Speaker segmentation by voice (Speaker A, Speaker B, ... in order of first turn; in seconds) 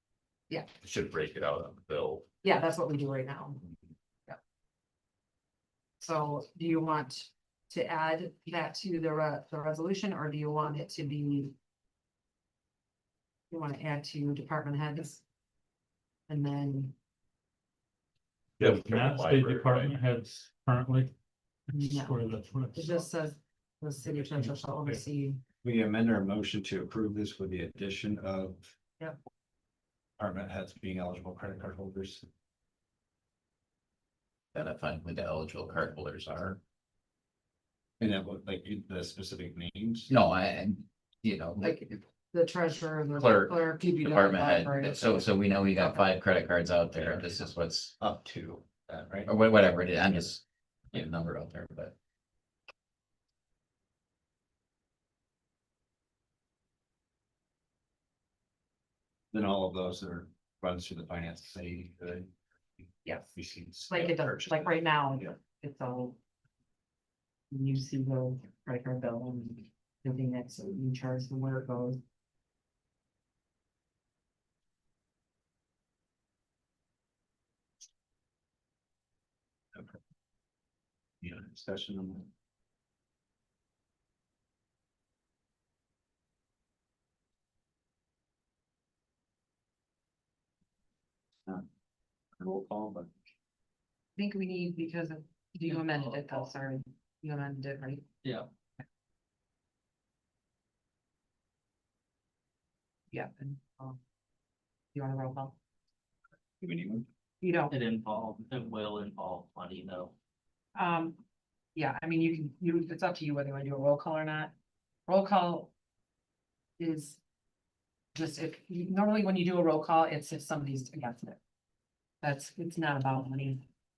Speaker A: 0.8-2.3, 18.6-20.0
Speaker B: 2.4-3.6, 6.0-11.6, 13.5-15.2, 16.3-16.9, 21.7-22.2, 22.7-25.4, 41.6-46.0, 63.0-63.3, 63.9-66.2, 67.5-72.0, 94.2-98.0, 103.1-104.0, 104.9-105.5, 107.4-107.7, 110.7-111.2, 111.7-114.5, 115.1-115.7, 116.8-117.2, 118.1-121.4, 122.2-123.6
Speaker C: 18.6-21.1, 21.7-23.0, 24.0-25.0
Speaker D: 25.6-28.7, 30.2-32.2, 38.0-40.1, 48.0-49.3, 59.3-65.3, 81.2-82.3, 92.4-93.1, 106.6-107.0
Speaker E: 34.5-36.6, 40.1-41.8, 43.1-47.9, 49.3-51.9
Speaker F: 107.7-110.1